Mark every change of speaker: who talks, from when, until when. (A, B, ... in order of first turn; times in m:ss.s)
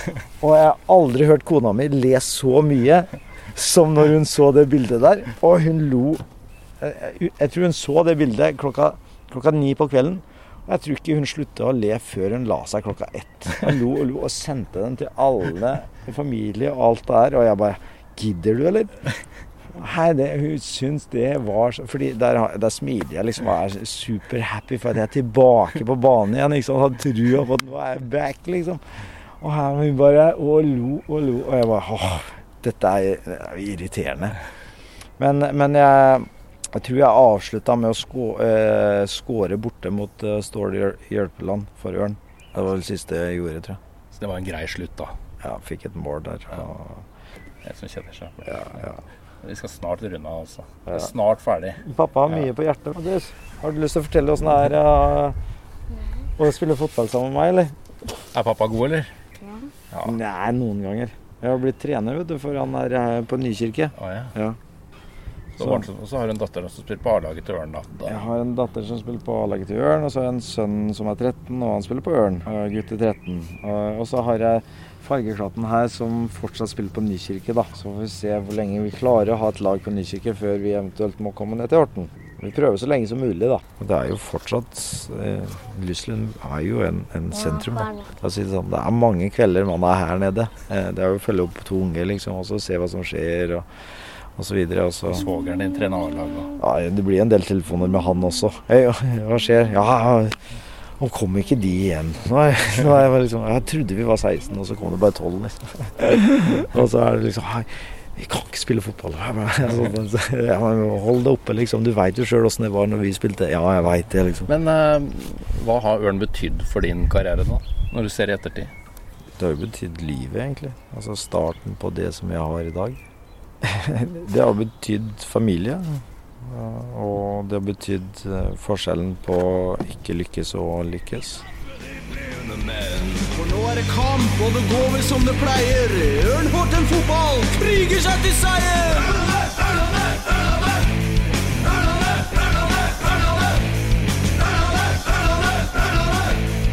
0:00.4-0:06.2 A
0:06.8-0:19.1 A
0:19.7-0:34.4 A
0:35.2-0:43.8 A
0:44.1-0:45.2 B
0:45.4-0:47.0 A
0:47.6-0:48.6 B
0:48.5-0:49.0 A
0:49.4-0:51.8 B
0:51.8-0:55.4 A
0:56.4-0:57.8 A
0:58.3-0:59.1 B
1:00.0-1:04.6 A
1:04.0-1:04.3 B
1:05.6-1:08.2 B
1:05.6-1:05.9 A
1:08.1-1:33.7 A
1:34.4-1:35.3 A
1:35.1-1:36.5 B
1:36.6-1:54.5 A
1:54.5-1:58.7 B
1:59.4-2:03.0 A
2:03.6-2:11.4 A
2:11.9-2:21.0 C
2:21.6-2:23.6 C
2:24.3-2:26.4 C